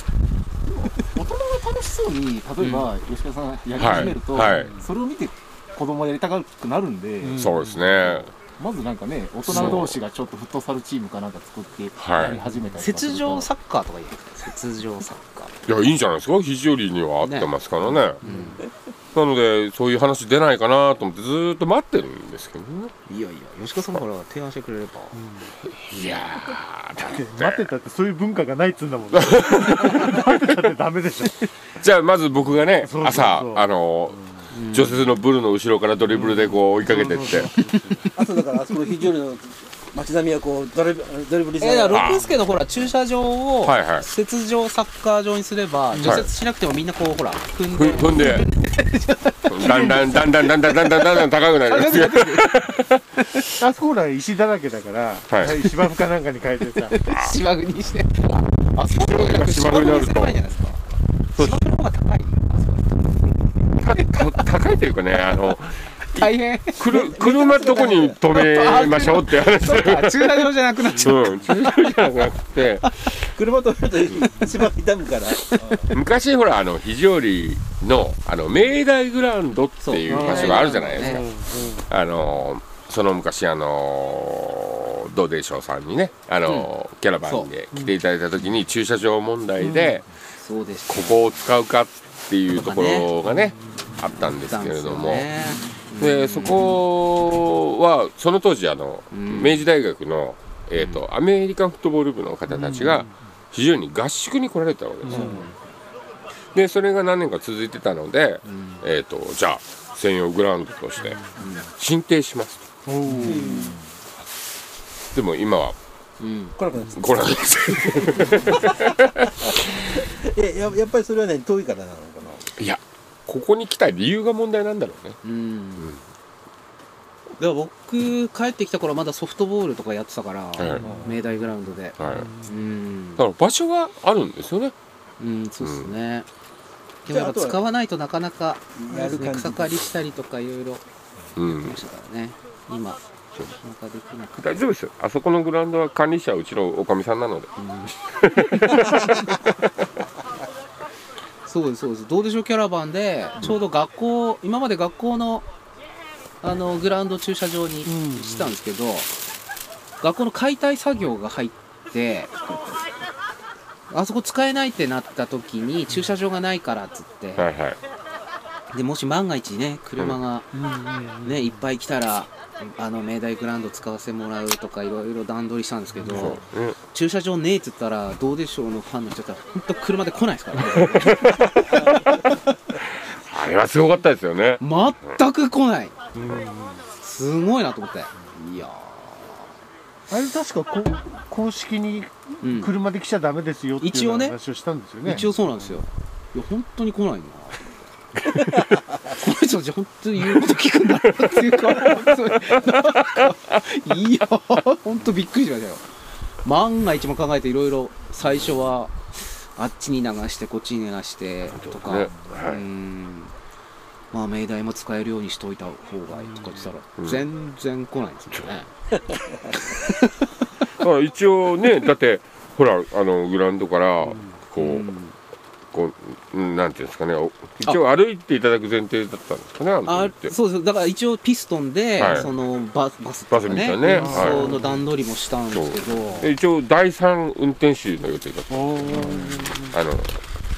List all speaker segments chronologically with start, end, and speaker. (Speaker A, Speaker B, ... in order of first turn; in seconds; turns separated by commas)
Speaker A: 0.7-7.5, Speaker B: 2.6-2.9, Speaker C: 3.8-4.7, Speaker D: 7.2-7.8, Speaker C: 7.4-8.3, Speaker A: 8.4-13.5, Speaker C: 9.5-10.0, Speaker C: 12.0-12.4, Speaker B: 12.2-15.5, Speaker C: 15.7-18.2, Speaker B: 17.2-17.5, Speaker B: 18.2-18.6, Speaker C: 19.1-22.9, Speaker B: 23.1-25.2, Speaker D: 25.2-25.5, Speaker C: 25.8-27.7, Speaker D: 27.0-31.4, Speaker C: 29.1-30.7, Speaker C: 31.8-37.5, Speaker D: 32.8-33.6, Speaker B: 34.5-35.0, Speaker D: 36.1-38.0, Speaker E: 38.1-42.2, Speaker B: 41.6-52.6, Speaker C: 41.9-42.2, Speaker C: 43.6-44.0, Speaker D: 45.9-46.2, Speaker C: 46.0-46.3, Speaker C: 47.7-48.5, Speaker C: 49.5-53.0, Speaker D: 53.6-57.0, Speaker C: 55.3-55.6, Speaker B: 56.9-60.8, Speaker C: 57.1-57.4, Speaker C: 58.2-60.5, Speaker C: 61.3-61.7, Speaker B: 61.4-63.3, Speaker C: 63.8-73.3, Speaker B: 63.9-64.5, Speaker B: 66.1-72.0, Speaker E: 66.9-68.0, Speaker E: 73.3-75.9, Speaker C: 75.9-81.3, Speaker B: 79.8-81.3, Speaker D: 80.1-81.9, Speaker C: 81.9-90.1, Speaker B: 87.2-87.5, Speaker B: 90.4-91.2, Speaker C: 90.9-95.3, Speaker B: 92.6-93.1, Speaker B: 94.1-96.8, Speaker C: 96.0-105.4, Speaker B: 99.1-99.7, Speaker B: 100.8-101.0, Speaker D: 102.7-103.0, Speaker D: 105.0-105.5, Speaker B: 105.1-105.5, Speaker C: 106.5-112.6, Speaker B: 108.4-108.8, Speaker B: 111.4-111.7, Speaker D: 112.8-113.6, Speaker B: 113.0-113.6, Speaker E: 113.2-113.8, Speaker C: 115.1-115.8, Speaker B: 116.2-116.6, Speaker E: 116.6-118.9, Speaker C: 116.9-119.4, Speaker E: 119.4-122.5, Speaker C: 122.6-125.2, Speaker B: 125.2-125.9, Speaker B: 127.4-133.2, Speaker C: 130.6-130.9, Speaker E: 130.8-131.1, Speaker C: 132.0-132.3, Speaker D: 132.2-132.4, Speaker C: 133.2-134.7, Speaker B: 135.2-136.2, Speaker C: 135.6-135.9, Speaker B: 137.1-140.8, Speaker E: 137.1-137.6, Speaker E: 138.8-139.8, Speaker C: 141.3-141.8, Speaker B: 141.4-144.6, Speaker C: 144.4-147.5, Speaker B: 147.6-147.9, Speaker C: 148.2-149.3, Speaker B: 148.5-149.3, Speaker B: 151.4-155.4, Speaker B: 156.4-159.1, Speaker D: 157.8-158.5, Speaker B: 160.0-162.3, Speaker B: 163.9-167.5, Speaker C: 167.4-167.8, Speaker B: 168.7-170.5, Speaker D: 170.5-171.5, Speaker B: 171.2-182.1, Speaker C: 176.1-176.8, Speaker C: 180.7-181.9, Speaker C: 183.2-184.6, Speaker B: 184.6-185.9, Speaker D: 186.2-186.8, Speaker B: 187.0-189.5, Speaker D: 190.1-195.3, Speaker B: 192.4-192.7, Speaker B: 193.8-194.3, Speaker B: 195.0-197.7, Speaker B: 199.1-205.8, Speaker C: 201.7-202.1, Speaker B: 206.4-213.3, Speaker C: 211.5-212.6, Speaker B: 214.1-218.7, Speaker C: 217.0-217.2, Speaker B: 219.7-220.1, Speaker C: 220.8-224.9, Speaker B: 224.6-225.1, Speaker C: 225.7-230.3, Speaker B: 229.8-236.3, Speaker C: 232.0-232.3, Speaker C: 233.3-234.5, Speaker D: 233.8-234.8, Speaker C: 235.5-240.2, Speaker D: 238.5-239.8